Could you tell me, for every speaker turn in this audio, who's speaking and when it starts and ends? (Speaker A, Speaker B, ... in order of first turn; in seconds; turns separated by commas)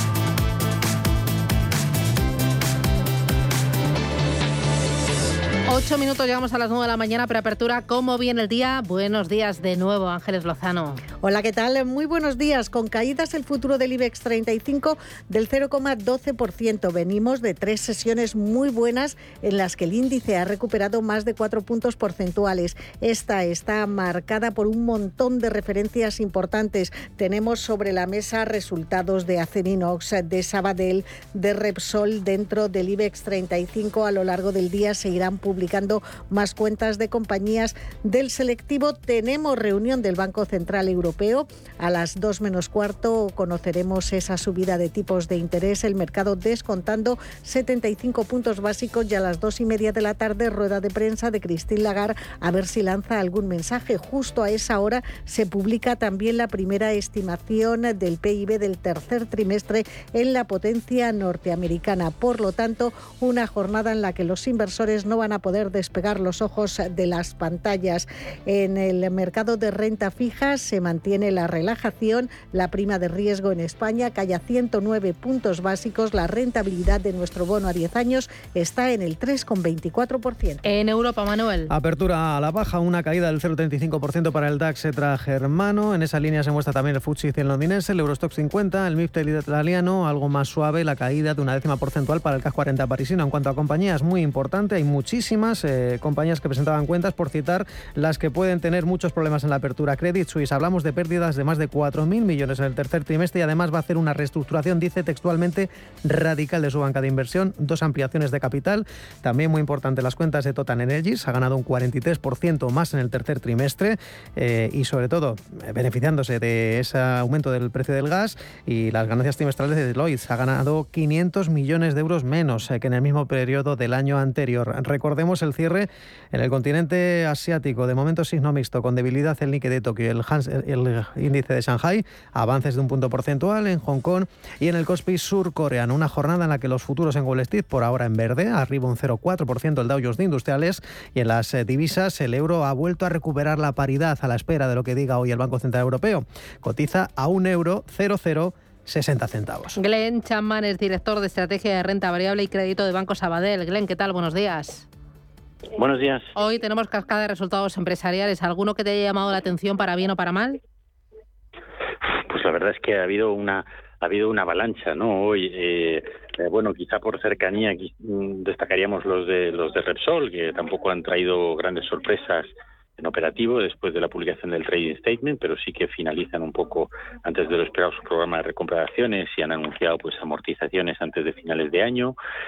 Speaker A: 5.7-11.0, Speaker B: 11.2-80.6, Speaker A: 80.6-81.7, Speaker C: 81.7-149.8, Speaker A: 149.8-154.9, Speaker D: 155.8-156.3, Speaker A: 156.3-160.6, Speaker D: 162.1-182.2